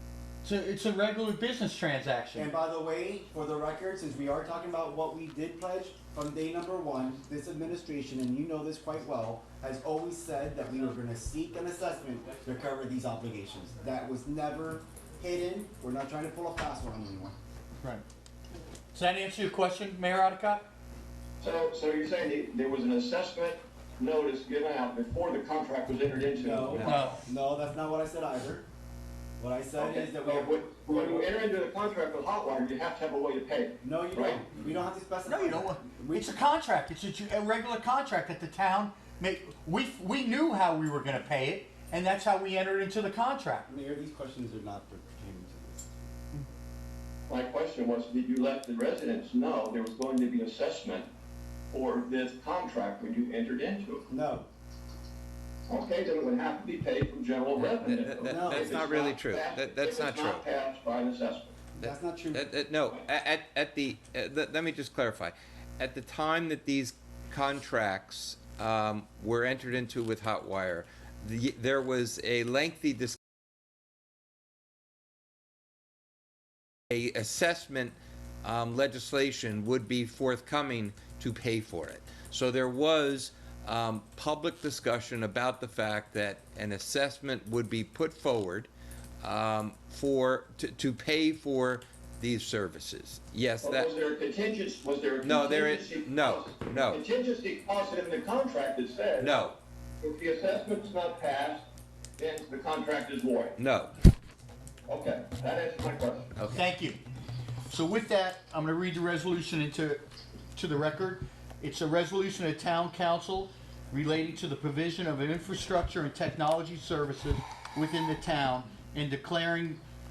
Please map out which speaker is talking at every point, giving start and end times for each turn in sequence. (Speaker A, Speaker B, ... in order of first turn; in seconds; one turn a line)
Speaker A: 0.4-2.5
Speaker B: 2.3-17.4
Speaker A: 18.9-20.6
Speaker C: 21.4-27.1
Speaker B: 26.4-28.6
Speaker A: 26.8-27.2
Speaker B: 29.4-31.3
Speaker C: 29.8-34.4
Speaker B: 33.8-36.2
Speaker A: 35.2-43.6
Speaker B: 43.6-46.1
Speaker C: 47.3-51.0
Speaker C: 51.7-54.0
Speaker B: 54.1-54.5
Speaker C: 55.7-61.5
Speaker D: 57.8-60.5
Speaker B: 58.2-58.9
Speaker B: 61.8-62.5
Speaker D: 61.8-73.2
Speaker D: 76.9-88.7
Speaker D: 89.2-93.9
Speaker C: 93.6-99.3
Speaker D: 95.2-97.0
Speaker D: 99.2-99.5
Speaker C: 100.0-101.6
Speaker C: 102.2-103.5
Speaker D: 103.6-103.9
Speaker C: 104.9-106.3
Speaker D: 106.3-106.6
Speaker A: 106.5-107.0
Speaker A: 107.7-110.0
Speaker A: 110.5-119.8